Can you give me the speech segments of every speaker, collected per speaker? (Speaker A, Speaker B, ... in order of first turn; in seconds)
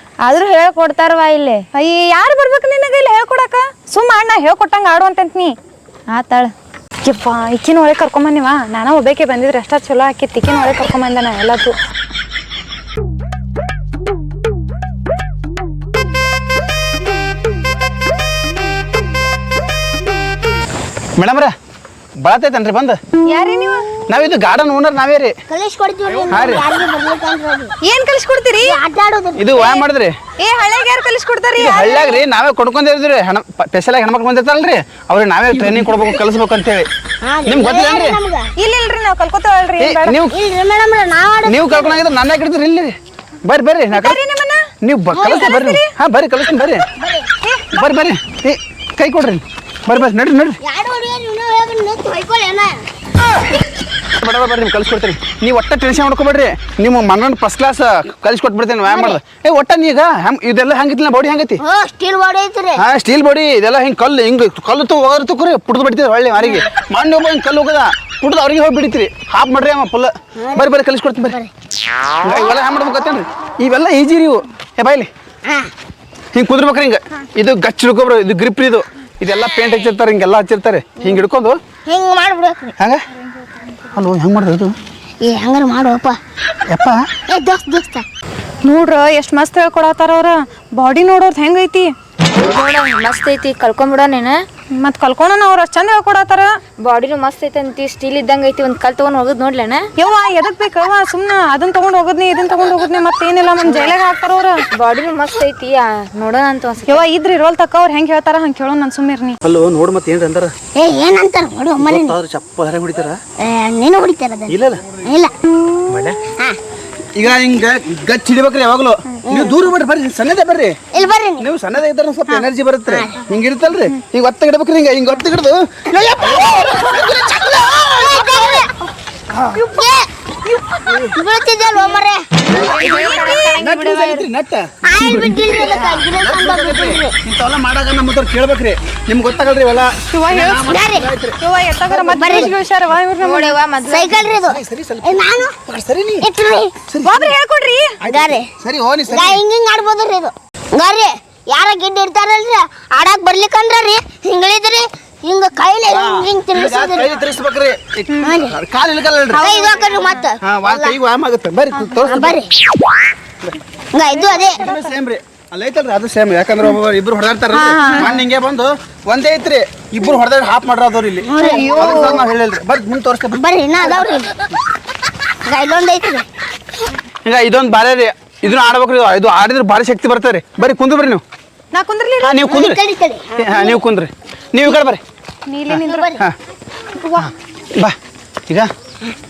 Speaker A: 0.2-1.6, 6.1-6.5, 92.4-94.4, 96.8-99.8, 103.6-103.9, 104.7-107.0, 132.6-134.2, 143.2-144.1
Speaker B: 1.7-5.5, 7.0-11.7, 23.2-23.9, 27.8-28.8, 30.4-32.2, 38.6-40.1, 43.9-44.6, 45.2-45.9, 47.4-47.9, 88.6-91.9, 94.8-96.5, 100.0-104.6, 106.8-109.4, 132.8-133.6, 140.1-140.8, 141.4-143.6, 147.0-147.9, 159.4-160.2, 167.5-168.2, 171.4-172.2, 181.7-182.4, 185.5-186.1, 187.0-187.3
Speaker C: 21.2-21.5, 22.2-23.0, 24.1-25.3, 26.3-26.6, 29.4-30.1, 31.6-36.9, 37.4-38.2, 39.8-40.3, 41.4-44.2, 44.8-46.9, 47.7-50.6, 54.2-61.6, 62.8-71.4, 72.2-75.1, 76.3-81.6, 82.8-83.0, 83.9-84.8, 86.7-87.0, 109.4-110.5, 111.8-113.2, 114.5-114.8, 115.9-116.2, 117.1-120.8, 121.4-127.9, 129.3-129.6, 130.6-131.2, 133.6-134.7, 135.5-141.4, 141.9-142.5, 144.2-146.3, 146.9-147.3, 148.0-149.4, 155.9-159.5, 160.4-162.4, 164.6-173.4, 177.2-181.2, 182.2-182.8, 183.3-185.0, 185.7-186.3, 187.2-188.0
Speaker D: 25.5-27.7, 28.6-29.7, 37.2-38.5, 40.3-42.0, 45.1-45.5, 47.0-47.3, 50.6-52.8, 58.9-59.2, 61.6-62.8, 70.4-70.7, 75.4-75.7, 81.8-82.7, 85.2-86.2, 87.3-88.0, 110.8-112.2, 113.4-114.5, 115.0-115.3, 119.3-119.6, 120.9-121.4, 122.9-123.2, 126.2-128.7, 129.5-130.1, 131.1-132.2, 134.8-137.1, 140.7-141.1, 142.1-142.5, 143.8-145.6, 146.2-146.7, 148.0-148.5, 149.1-157.2, 158.2-158.6, 159.3-160.9, 162.0-162.5, 163.9-164.7, 171.2-172.1, 173.3-174.3, 175.4-176.2, 182.5-183.8, 185.8-186.2